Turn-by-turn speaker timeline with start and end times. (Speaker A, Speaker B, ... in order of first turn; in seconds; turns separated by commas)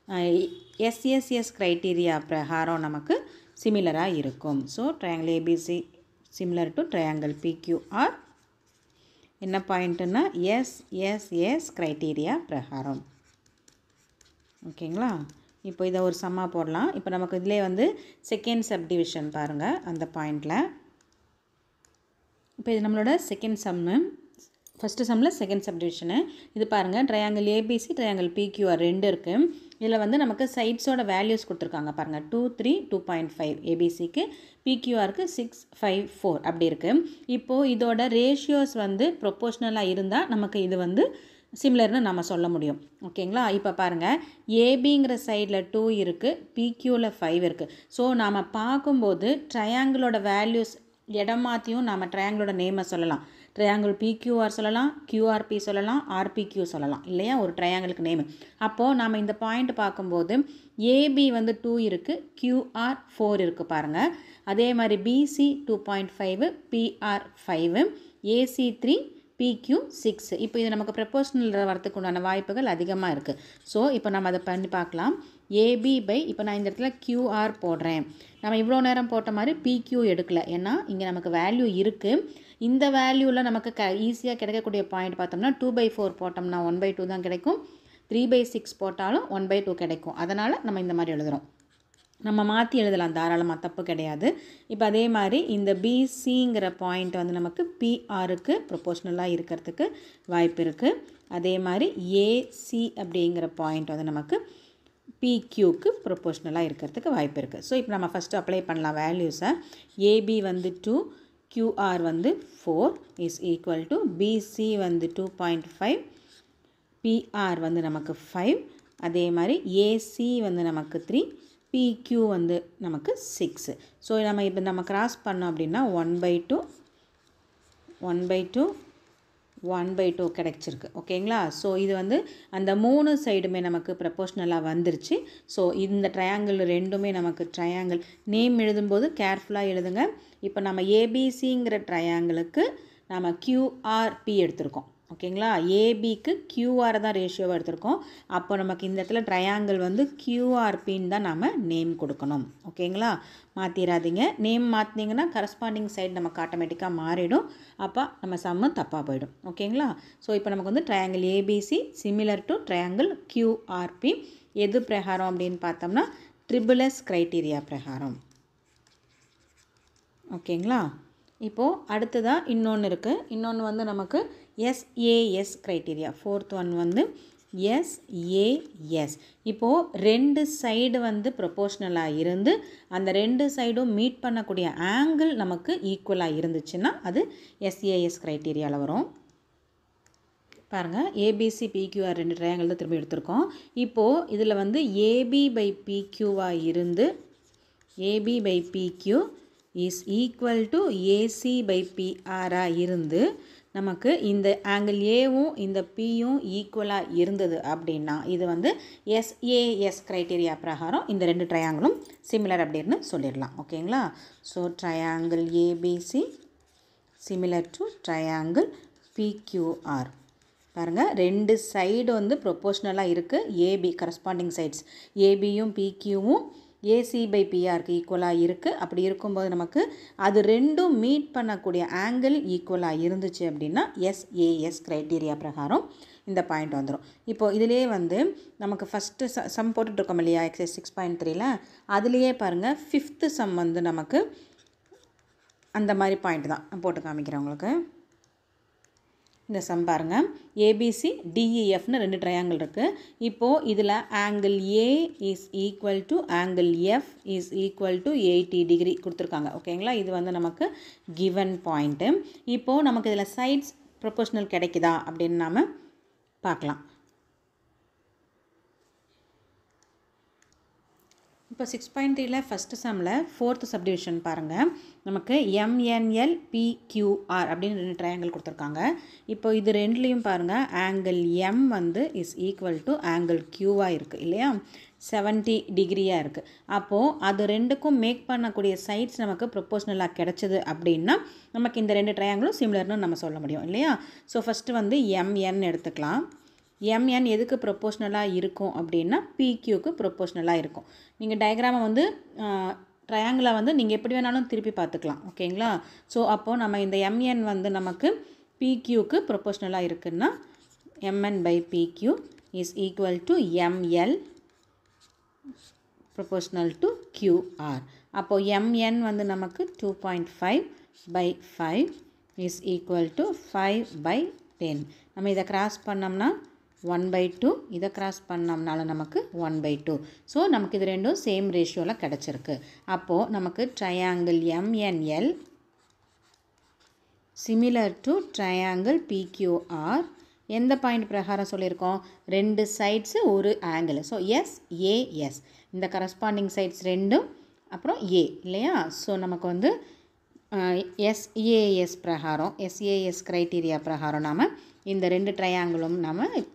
Speaker A: 0.1-5.8, Speaker A: 6.3-8.2, Speaker A: 9.4-13.0, Speaker A: 14.7-20.6, Speaker A: 22.6-24.1, Speaker A: 24.8-41.1, Speaker A: 41.6-87.6, Speaker A: 88.1-91.4, Speaker A: 92.3-104.4, Speaker A: 105.2-116.0, Speaker A: 117.0-126.6, Speaker A: 128.0-128.7, Speaker A: 129.7-168.2, Speaker A: 170.4-170.9, Speaker A: 171.5-177.1, Speaker A: 177.6-189.1, Speaker A: 190.7-197.1, Speaker A: 198.1-199.2, Speaker A: 199.8-216.3, Speaker A: 217.2-220.1, Speaker A: 220.8-244.2, Speaker A: 245.8-247.7, Speaker A: 249.5-265.7, Speaker A: 266.4-266.8, Speaker A: 271.5-296.2, Speaker A: 296.9-310.3, Speaker A: 311.1-314.2, Speaker A: 316.1-326.3, Speaker A: 326.9-335.3, Speaker A: 337.4-349.7, Speaker A: 350.5-356.3